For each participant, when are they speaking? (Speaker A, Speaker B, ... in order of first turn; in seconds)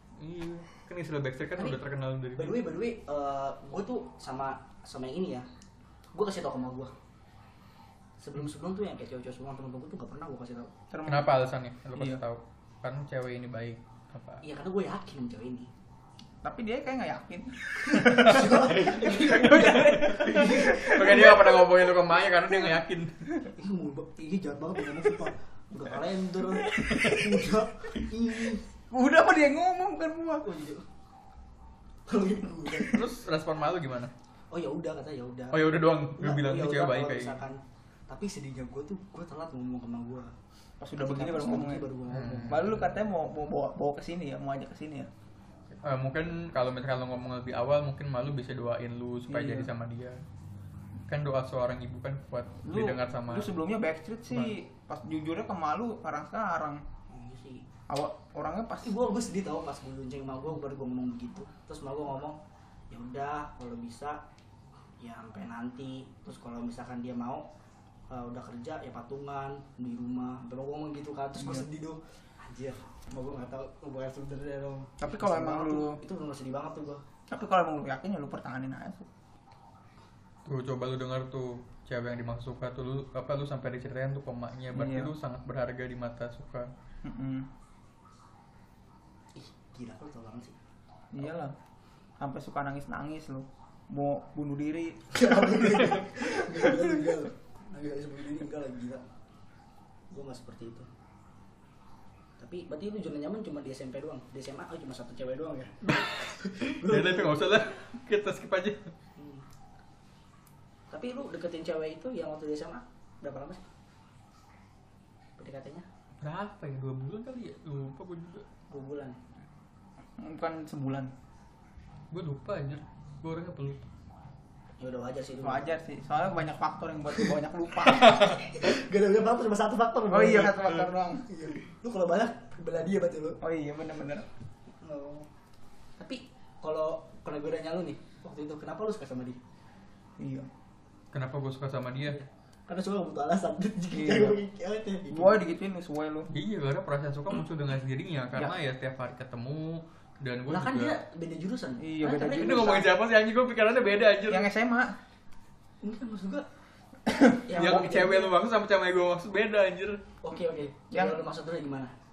Speaker A: 0.2-2.5, 11.1-14.4, 18.7-23.2, 26.7-27.2, 32.9-34.1, 35.5-37.4, 42.1-42.9, 45.8-50.2, 51.1-53.5, 80.4-86.7, 105.8-108.9, 116.2-118.5, 122.1-123.8, 141.1-142.2, 146.3-150.9, 152.3-154.5, 157.5-160.0
Speaker B: 2.4-5.5, 6.1-6.9, 8.2-10.7, 14.4-15.7, 17.8-21.6, 23.4-28.6, 30.4-30.9, 32.1-33.0, 34.5-40.3, 41.0-42.6, 57.1-57.6, 58.8-62.4, 62.9-64.2, 65.0-67.4, 68.1-77.0, 89.3-90.6, 95.1-99.0, 100.1-100.9, 102.4-105.7, 106.4-107.5, 109.2-109.4, 110.9-113.6, 115.4-115.8, 118.7-119.2, 124.8-125.7, 127.9-133.4, 134.8-135.3, 136.0-139.4, 142.1-145.4, 150.5-152.9, 155.8-156.4, 157.4-158.3, 160.2-161.9
Speaker C: 10.9-11.3, 16.4-18.7, 26.8-27.1, 28.9-30.4, 40.8-41.9, 42.5-45.1, 49.3-49.7, 52.6-56.8, 57.9-58.9, 71.4-71.7, 75.0-76.0, 77.3-79.1, 84.7-85.1, 87.0-87.5, 91.1-91.5, 92.2-96.7, 120.2-121.1, 125.4-128.2, 130.1-131.3, 133.4-134.3, 140.2-140.5, 143.9-144.4, 145.1-146.3, 151.8-152.9, 154.3-155.0, 157.1-157.4, 160.9-161.2